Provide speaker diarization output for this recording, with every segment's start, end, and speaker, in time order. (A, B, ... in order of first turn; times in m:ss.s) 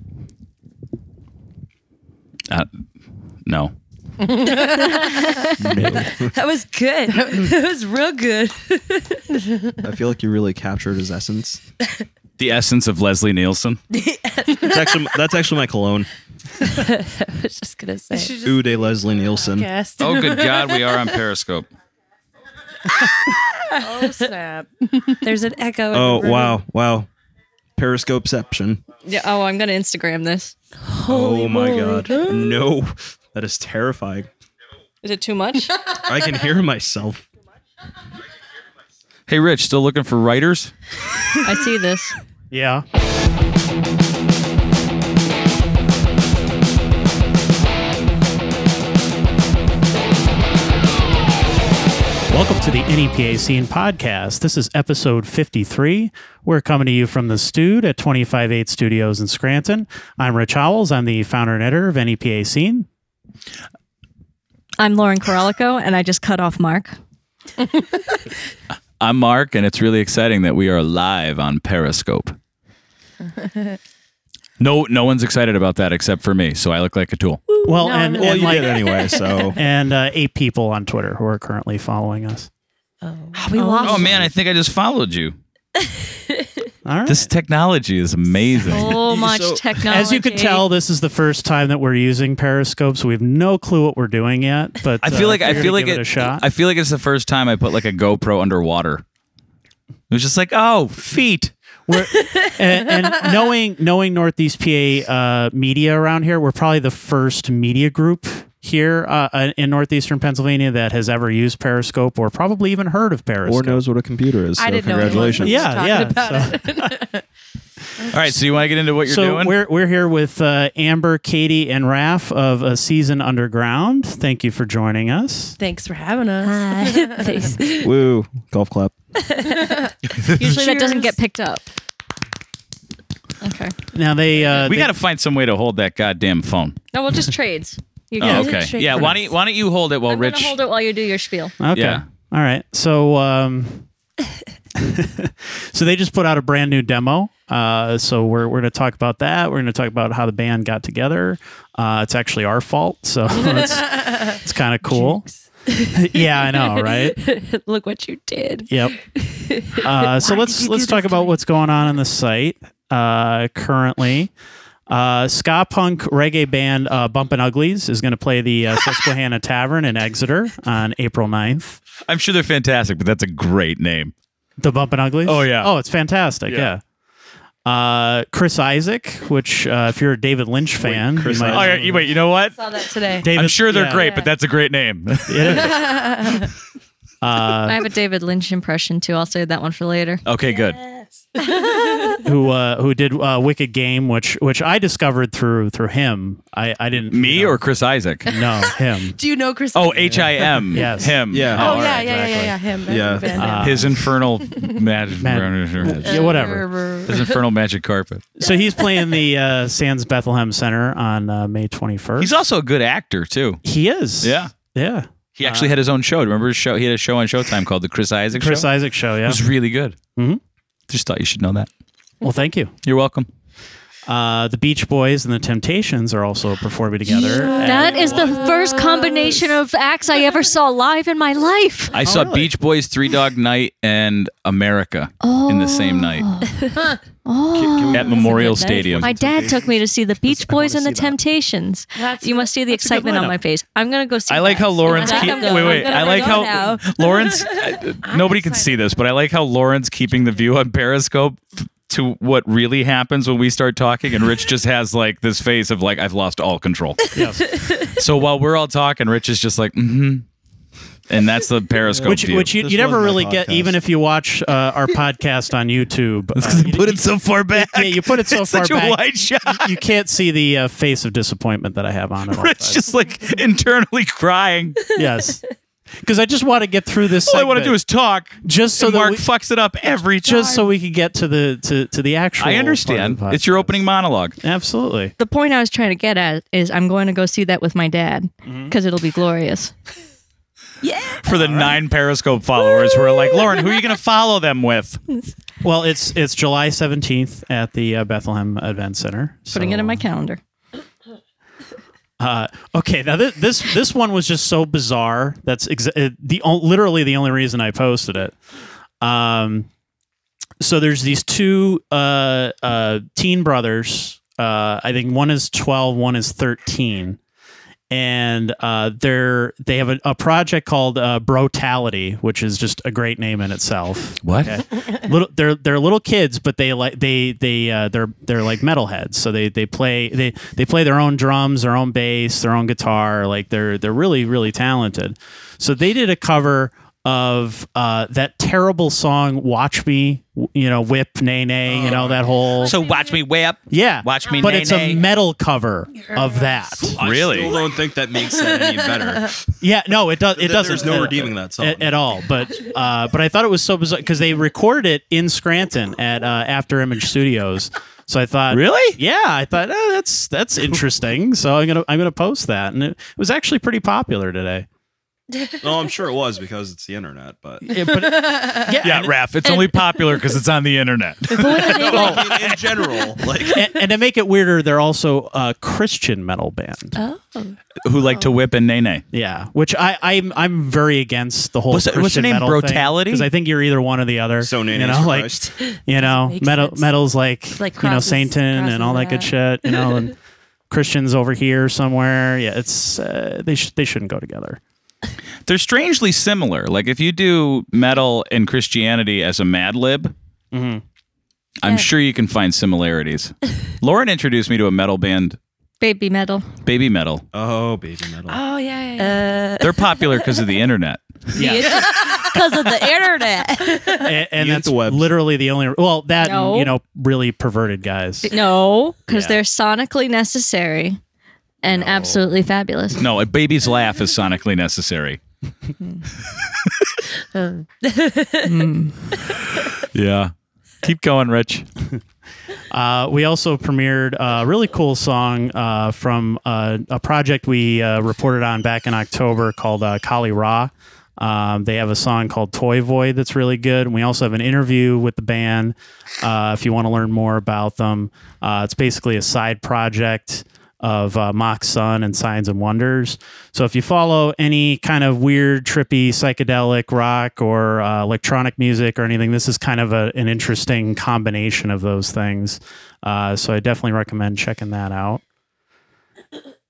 0:03.4-0:03.7 A
0:04.2-0:05.1 B
0:04.5-0:09.4 C
0:05.6-0:06.3 D
0:07.2-0:07.5 B
0:09.8-0:11.6 D
0:12.4-0:13.8 A
0:14.0-0:14.6 C
0:14.6-0:16.1 D
0:16.6-0:18.3 C
0:18.1-0:18.7 B
0:18.4-0:19.7 D
0:19.4-0:21.2 B
0:20.0-0:21.7 A
0:23.0-0:24.3 C
0:23.3-0:25.3 B
0:25.2-0:26.6 C
0:25.9-0:27.1 D
0:27.8-0:28.8 D
0:29.0-0:30.6 E
0:30.9-0:32.6 C
0:31.1-0:34.3 D
0:35.0-0:35.8 E
0:36.0-0:37.3 D
0:39.3-0:40.7 A
0:41.4-0:42.2 E
0:42.5-0:42.8 F
0:52.3-1:02.9 F
1:04.8-1:07.0 E
1:09.0-1:12.4 A
1:14.6-1:17.4 A
1:17.6-1:19.6 B
1:17.6-1:18.8 F
1:18.2-1:19.6 D
1:19.6-1:22.5 F
1:23.0-1:24.2 C
1:23.4-1:24.1 B
1:23.6-1:24.0 E
1:23.8-1:25.4 A
1:26.8-1:27.3 F
1:27.1-1:29.0 A
1:28.7-1:30.7 E
1:28.7-1:30.0 D
1:29.9-1:36.5 F
1:35.0-1:39.0 A
1:40.1-1:41.5 A
1:41.9-1:53.8 F
1:53.5-1:55.7 D
1:54.6-1:57.2 B
1:55.0-1:57.0 F
1:58.1-1:59.6 A
1:59.0-2:05.6 F
2:05.6-2:07.5 B
2:06.4-2:07.9 C
2:07.8-2:09.0 D
2:09.2-2:09.8 C
2:10.1-2:10.6 A
2:10.4-2:11.6 E
2:10.7-2:11.1 C
2:13.4-2:13.7 E
2:13.9-2:14.9 F
2:14.5-2:16.8 A
2:16.9-2:18.6 E
2:18.2-2:20.6 A
2:18.2-2:19.2 C
2:18.2-2:19.2 F
2:20.1-2:21.6 E
2:21.6-2:23.9 F
2:21.7-2:22.0 A
2:24.8-2:35.3 F
2:35.7-2:41.3 C
2:35.9-2:37.2 F
2:38.7-2:39.0 F
2:39.8-2:44.3 F
2:44.9-2:51.8 F
2:52.1-2:54.1 A
2:54.6-2:56.8 F
2:55.3-2:55.7 A
2:57.7-3:02.0 F
3:00.8-3:01.9 D
3:01.5-3:06.4 A
3:02.6-3:03.3 B
3:03.2-3:04.2 F
3:05.3-3:06.0 F
3:05.5-3:06.5 B
3:07.2-3:07.8 F
3:07.6-3:10.2 E
3:10.2-3:10.8 A
3:11.7-3:12.2 C
3:12.2-3:17.6 F
3:17.1-3:18.3 A
3:18.3-3:19.2 F
3:19.2-3:21.0 B
3:19.7-3:22.0 A
3:20.7-3:22.6 F
3:21.3-3:22.0 D
3:21.6-3:23.9 B
3:22.9-3:23.7 D
3:23.4-3:24.0 F
3:23.6-3:26.0 A
3:25.2-3:26.7 F
3:25.8-3:26.4 D
3:26.0-3:26.5 C
3:26.4-3:27.1 B
3:27.1-3:27.3 C
3:27.1-3:28.2 A
3:28.4-3:32.4 F
3:32.2-3:33.6 A
3:33.6-3:35.8 F
3:34.2-3:34.5 A
3:35.4-3:38.7 A
3:38.3-3:39.4 F
3:39.2-3:40.0 A
3:40.9-3:41.7 A
3:42.2-3:42.7 F
3:42.8-3:43.3 A
3:44.1-3:48.3 F
3:47.1-3:51.9 E
3:47.2-3:49.3 B
3:48.1-3:48.3 D
3:51.9-3:56.3 A
3:52.0-3:52.5 F
3:55.2-3:56.6 E
3:56.5-3:56.9 C
3:57.2-3:58.4 E
3:57.5-4:01.2 D
3:57.9-3:59.1 A
3:58.2-3:58.9 C
3:59.0-4:06.8 E
4:02.0-4:02.5 B
4:02.7-4:03.4 F
4:04.3-4:17.0 A
4:04.9-4:07.6 C
4:08.0-4:09.0 B
4:17.1-4:17.5 F
4:17.2-4:18.0 C
4:17.8-4:20.2 A
4:21.1-4:22.6 A
4:21.8-4:23.8 D
4:22.0-4:32.8 F
4:26.4-4:29.8 A
4:32.3-4:34.8 A
4:35.0-4:35.4 F
4:36.0-4:37.8 F
4:37.3-4:40.7 A
4:38.4-4:39.2 F
4:40.2-4:43.8 F
4:42.4-4:44.4 A
4:44.4-4:45.1 F
4:45.2-4:49.7 E
4:48.5-4:48.7 F
4:50.8-4:51.3 C
4:51.2-4:55.0 A
4:51.3-4:51.8 F
4:55.6-5:00.0 F
4:59.5-5:00.4 E
5:02.2-5:08.4 F
5:09.0-5:09.7 F
5:10.6-5:17.2 F
5:17.9-5:42.7 F
5:24.2-5:24.6 A
5:41.7-5:42.2 D
5:42.6-5:45.0 A
5:43.7-5:47.0 F
5:47.0-5:49.5 D
5:47.0-5:47.6 A
5:49.6-6:04.7 F
5:50.3-5:52.0 D
5:58.5-5:59.0 A
6:05.6-6:07.8 D
6:07.6-6:09.1 F
6:08.8-6:12.5 A
6:09.4-6:10.2 C
6:11.4-6:12.2 C
6:11.4-6:12.6 F
6:11.5-6:13.7 D
6:13.5-6:17.0 F
6:17.0-6:17.6 C
6:17.8-6:19.0 A
6:19.1-6:30.2 F
6:21.7-6:23.3 A
6:24.4-6:25.5 D
6:25.5-6:26.9 C
6:27.6-6:30.0 C
6:30.7-6:34.6 F
6:35.5-6:40.1 A
6:40.5-6:40.8 F
6:41.6-6:45.4 A
6:45.8-6:46.5 E
6:46.6-6:47.2 A
6:47.3-6:48.4 D
6:48.3-6:49.3 B
6:49.0-6:50.3 C
6:49.6-6:51.2 A
6:51.3-6:54.2 C
6:51.4-6:52.4 F
6:53.9-6:58.3 F
6:54.4-6:55.0 D
6:56.2-6:56.7 E
6:58.3-7:01.0 E
6:59.1-6:59.4 F
7:01.6-7:03.0 E
7:03.0-7:05.2 A
7:06.3-7:06.9 A
7:07.3-7:08.6 C
7:08.5-7:08.9 E
7:09.3-7:11.7 A
7:12.7-7:45.2 F